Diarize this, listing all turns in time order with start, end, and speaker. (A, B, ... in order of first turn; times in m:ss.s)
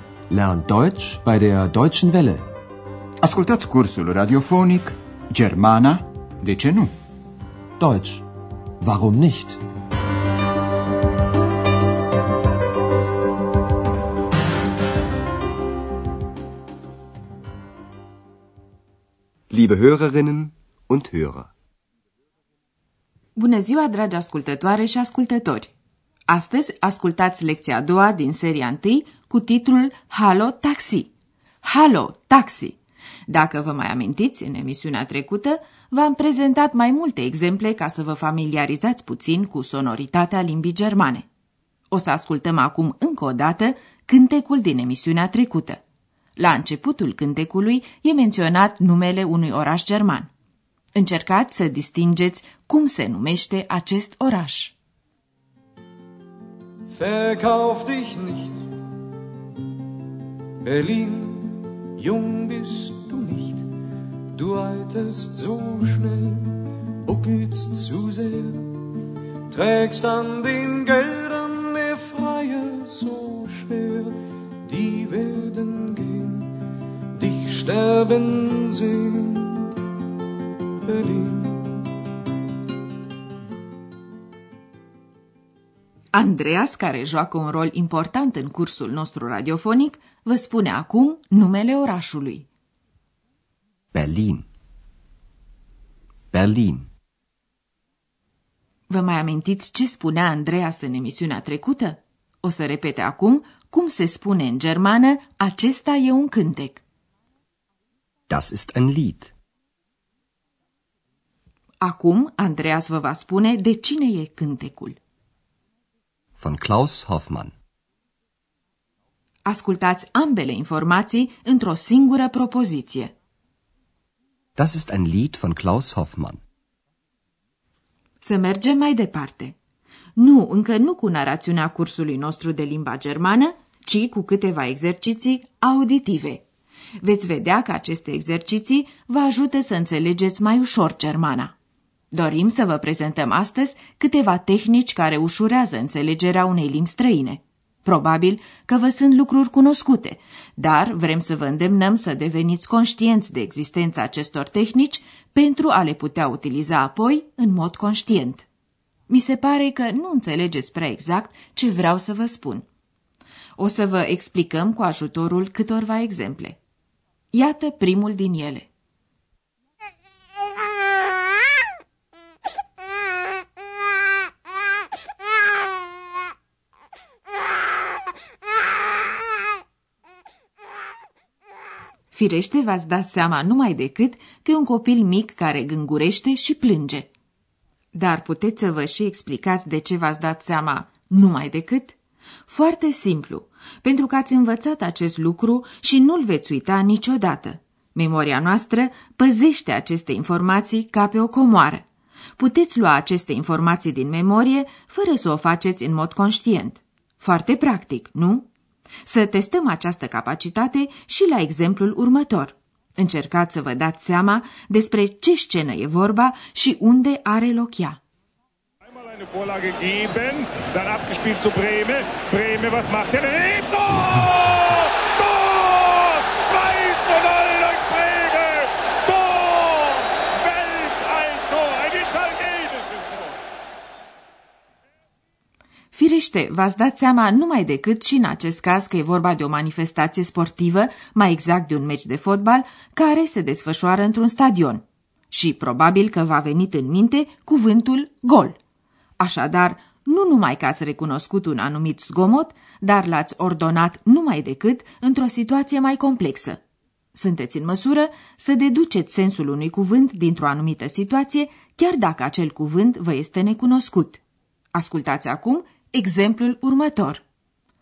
0:00.3-0:02.4 A
0:03.2-0:06.9 B
0:07.8-0:08.2 A
0:08.8-0:09.6 A
0:19.5-0:21.5 C
0:23.4-0:25.7 D
0:26.3-0:31.1 D
0:31.6-0:32.8 D
0:33.3-0:41.3 D
0:41.9-0:45.8 D
0:46.4-0:50.3 D
0:51.0-0:54.8 D
0:56.9-0:58.7 E
1:00.6-1:03.7 E
1:04.3-1:08.8 E
1:09.5-1:16.6 E
1:17.2-1:19.8 E
1:20.8-1:21.8 E
1:26.1-1:32.5 D
1:33.9-1:34.5 C
1:36.3-1:36.9 C
1:38.9-1:46.8 D
1:48.3-1:49.3 C
1:51.8-1:55.0 D
1:56.4-1:57.5 C
1:59.4-2:03.1 D
2:04.6-2:06.4 C
2:08.2-2:09.6 D
2:10.2-2:16.4 D
2:17.0-2:21.5 D
2:22.1-2:38.5 D
2:39.1-2:42.6 D
2:43.6-2:46.6 D
2:47.3-2:48.7 D
3:02.1-3:07.1 D
3:07.9-3:21.8 D
3:22.4-3:28.5 D
3:29.1-3:38.0 D
3:39.0-3:53.4 F
3:55.9-4:08.6 D
4:09.2-4:16.6 D
4:17.1-4:24.2 D
4:24.7-4:27.2 D